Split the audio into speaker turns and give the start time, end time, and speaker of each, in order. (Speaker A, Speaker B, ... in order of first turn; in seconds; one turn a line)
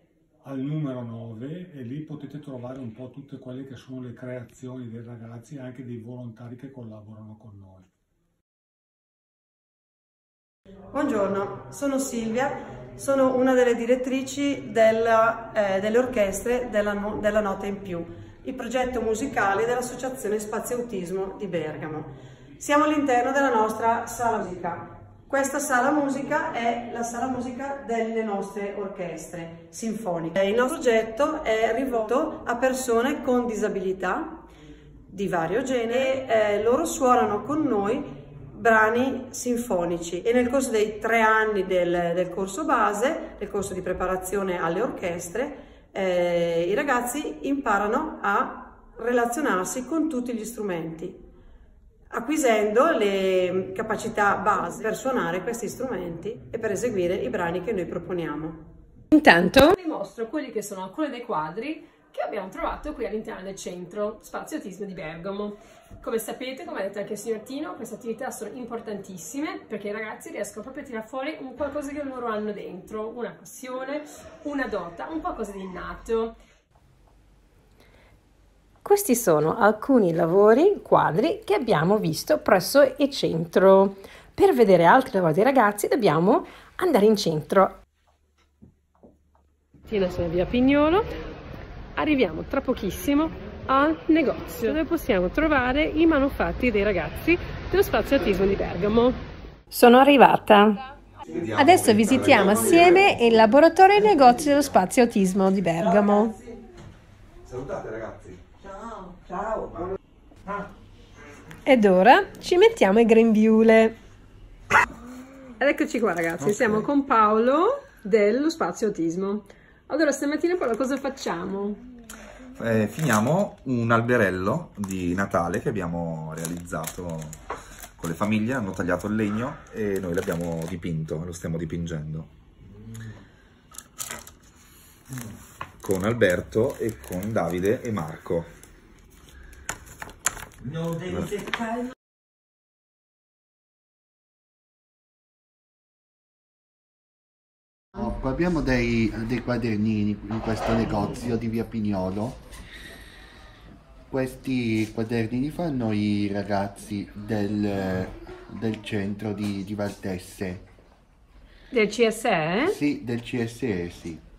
Speaker A: 0.4-7.9
Speaker B: 10.9-34.5
Speaker B: 35.1-51.2
Speaker B: 52.1-58.6
Speaker C: 59.1-76.4
Speaker C: 78.8-87.8
Speaker C: 89.9-91.1
Speaker C: 92.0-99.2
Speaker C: 99.7-100.8
Speaker D: 101.3-103.5
Speaker C: 101.6-106.4
Speaker D: 107.4-108.4
Speaker C: 111.7-114.0
Speaker C: 115.6-121.8
Speaker D: 122.6-127.4
Speaker D: 128.0-132.3
Speaker D: 135.8-138.5
Speaker D: 140.8-141.5
Speaker E: 147.9-152.5
Speaker E: 154.1-160.7
Speaker C: 161.7-162.8
Speaker E: 162.6-164.2